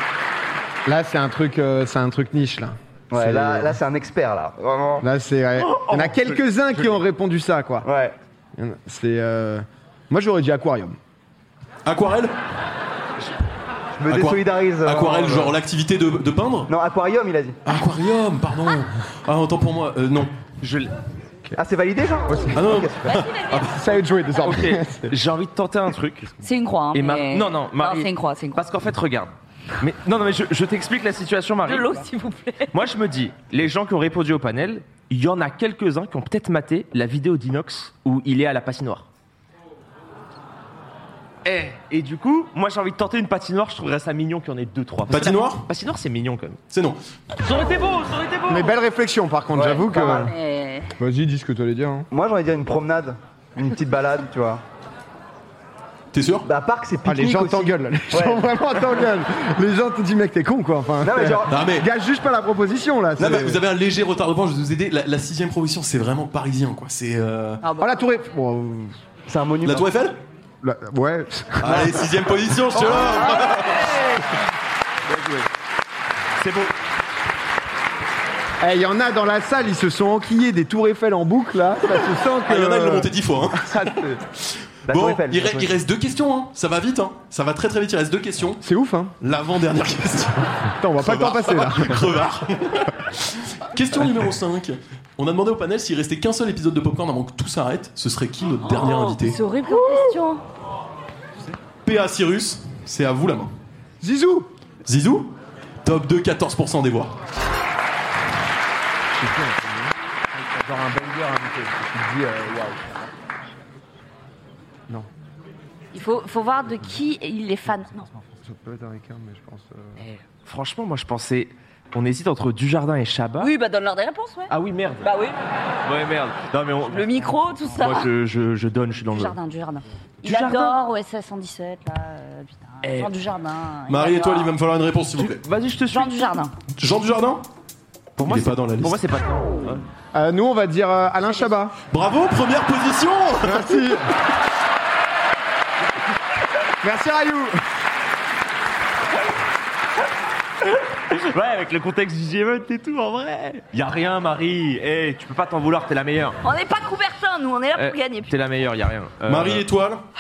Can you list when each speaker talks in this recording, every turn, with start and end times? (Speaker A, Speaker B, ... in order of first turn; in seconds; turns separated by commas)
Speaker A: 0.8-3.8, Speaker B: 3.1-5.1, Speaker A: 5.0-7.9, Speaker C: 5.6-7.0, Speaker B: 7.8-8.2, Speaker A: 8.6-11.0, Speaker D: 11.8-12.3, Speaker B: 13.9-15.5, Speaker D: 14.1-16.7, Speaker B: 16.7-17.6, Speaker D: 17.6-20.3, Speaker C: 20.6-20.9, Speaker B: 21.5-23.2, Speaker A: 22.3-22.8, Speaker D: 22.5-23.7, Speaker E: 23.1-23.9, Speaker A: 23.6-25.1, Speaker C: 24.4-32.0, Speaker E: 26.4-28.6, Speaker E: 31.6-32.8, Speaker C: 32.7-39.1, Speaker C: 41.4-46.6, Speaker D: 45.1-45.7, Speaker D: 46.7-47.0, Speaker C: 47.4-48.8, Speaker A: 48.5-50.3, Speaker B: 49.5-50.3, Speaker E: 50.0-50.9, Speaker A: 51.0-52.1, Speaker B: 52.1-54.6, Speaker D: 56.1-56.5, Speaker B: 56.4-58.6, Speaker A: 57.0-63.6, Speaker B: 61.0-61.6, Speaker D: 61.5-61.9, Speaker B: 63.2-63.5, Speaker D: 63.2-67.6, Speaker E: 67.6-67.9, Speaker A: 67.8-69.0, Speaker B: 69.3-69.9, Speaker D: 69.6-70.2, Speaker A: 70.6-72.2, Speaker D: 71.6-74.0, Speaker E: 73.0-74.0, Speaker C: 76.4-76.7, Speaker A: 78.6-84.2, Speaker D: 82.5-83.9, Speaker B: 84.9-85.8, Speaker D: 84.9-88.6, Speaker A: 88.6-89.1, Speaker D: 89.2-99.4, Speaker A: 90.8-92.2, Speaker E: 98.7-100.4, Speaker D: 101.8-103.5, Speaker A: 104.0-104.5, Speaker D: 104.8-105.3, Speaker D: 105.8-107.1, Speaker A: 109.1-113.0, Speaker E: 115.9-118.1, Speaker A: 118.4-120.0, Speaker C: 120.0-123.5, Speaker E: 123.4-125.4, Speaker C: 124.5-125.1, Speaker C: 125.8-129.4, Speaker E: 126.8-128.1, Speaker E: 129.1-134.5, Speaker C: 130.2-130.8, Speaker C: 132.8-133.2, Speaker D: 133.9-135.4, Speaker C: 135.2-136.3, Speaker E: 135.9-136.5, Speaker D: 136.7-137.4, Speaker C: 138.2-139.8, Speaker D: 138.2-139.0, Speaker A: 140.1-141.8, Speaker D: 141.9-144.1, Speaker A: 143.4-144.1, Speaker A: 146.8-147.6, Speaker C: 150.8-156.4, Speaker E: 156.4-158.4, Speaker C: 157.7-159.7, Speaker D: 159.3-160.0